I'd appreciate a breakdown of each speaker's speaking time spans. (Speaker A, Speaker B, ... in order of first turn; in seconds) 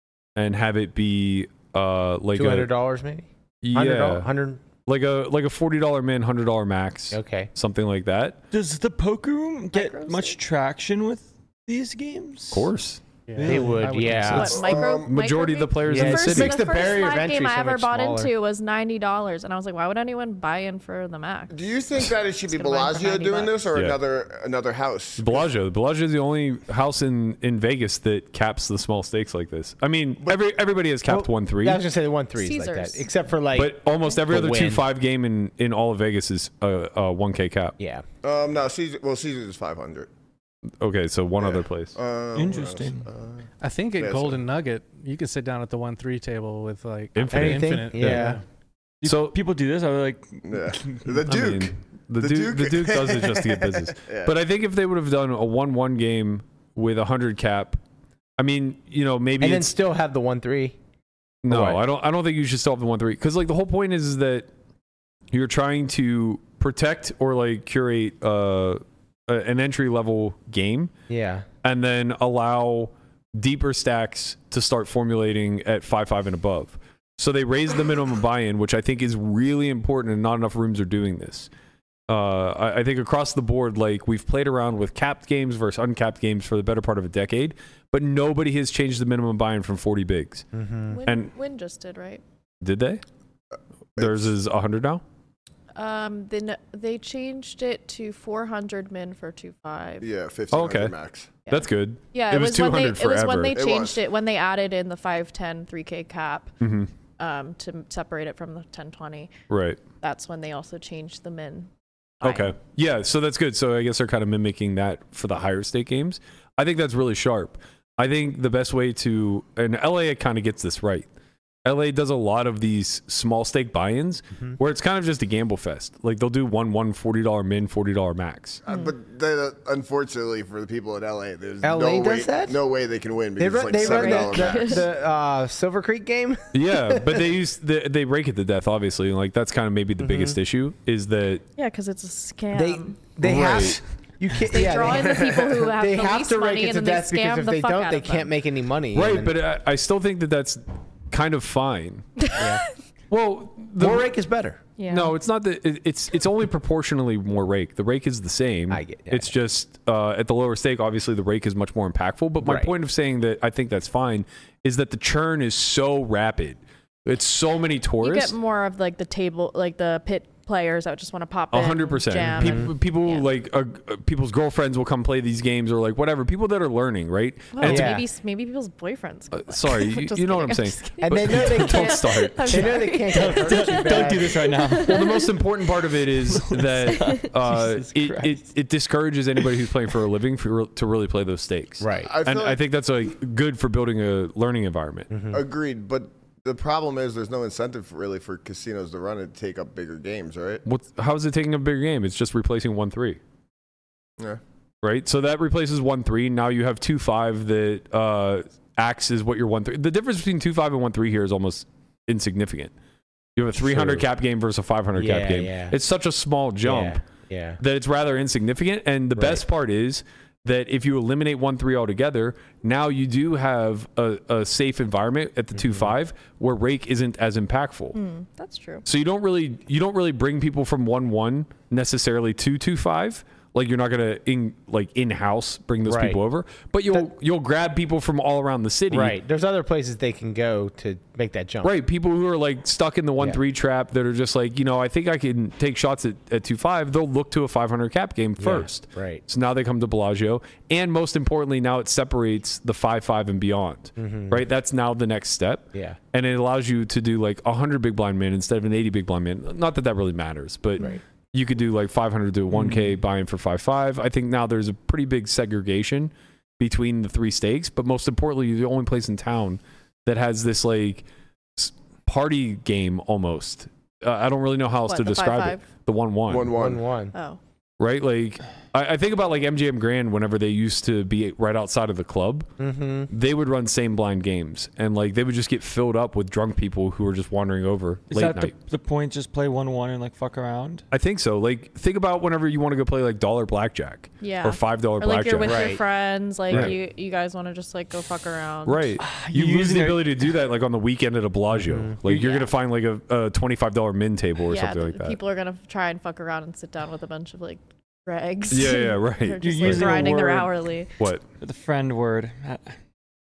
Speaker A: 0.3-2.7, 3.6-4.3, 4.8-8.4, 12.5-13.0, 14.1-16.6, 23.7-24.0, 25.2-31.8, 33.5-37.7, 40.8-42.0, 47.1-48.4, 49.0-49.4, 51.2-57.8, 58.4-59.7, 61.4-64.5, 65.3-70.9, 71.6-81.5, 82.1-90.5, 91.0-91.3, 92.6-93.0, 94.0-95.0, 100.5-100.9, 101.5-103.6, 106.6-106.9, 109.5-109.8, 112.2-121.1, 121.6-128.6, 136.5-141.4, 143.2-143.8, 148.9-152.3, 153.1-154.1, 154.8-168.3, 171.5-178.0, 179.3-182.8, 184.8-195.1, 200.6-203.2, 204.8-212.7, 213.3-217.0, 217.6-227.9, 228.8-239.2, 241.6-271.0, 271.6-276.5, 277.8-282.5, 283.1-288.5, 290.9-295.8, 296.5-296.7, 298.6-305.2, 308.5-310.1
Speaker B: 2.3-4.6, 7.1-7.5, 13.4-14.6, 15.8-18.3, 31.1-34.9, 37.8-38.0, 47.3-48.4, 59.4-60.8, 61.5-61.8, 71.1-71.5, 90.5-91.0, 131.6-132.6, 133.4-137.2, 140.0-140.4, 142.5-149.3, 152.3-152.6, 153.8-154.6, 158.7-159.3, 162.4-162.7, 172.4-172.7, 177.6-178.0, 181.0-184.4, 191.8-192.1, 195.1-195.4, 213.6-214.1, 214.9-215.7, 216.6-217.6, 219.2-219.4, 225.5-225.9, 235.8-236.2, 238.9-241.7, 248.4-249.2, 254.0-254.4, 255.7-256.0, 276.5-277.1, 282.6-283.1, 295.4-295.8, 301.5-301.9
Speaker C: 8.5-12.7, 13.3-14.2, 42.3-43.1, 49.0-51.1, 183.1-185.3, 186.1-188.4, 288.1-290.8, 299.0-300.3, 309.4-310.5, 311.4-312.8
Speaker D: 9.7-10.4, 14.2-21.7, 22.5-23.6, 32.4-33.1, 90.9-92.2, 95.7-100.1, 101.5-106.5, 107.2-109.3, 110.0-111.7, 112.2-112.5, 133.8-134.8, 141.6-143.0, 144.4-148.3, 152.2-152.6, 154.8-155.2, 168.0-173.3, 177.5-185.3, 186.9-187.2, 227.9-228.8, 274.9-275.6, 277.1-277.4, 294.2-298.9, 302.1-302.4, 304.4-310.9
Speaker E: 13.3-14.5, 43.6-48.4
Speaker F: 14.4-15.1, 21.5-25.4, 38.2-40.1, 41.4-44.4, 50.5-54.4, 94.0-94.3, 100.0-101.3, 103.5-104.0, 128.6-134.8, 144.9-145.3, 192.0-192.6, 195.3-200.6, 276.3-276.8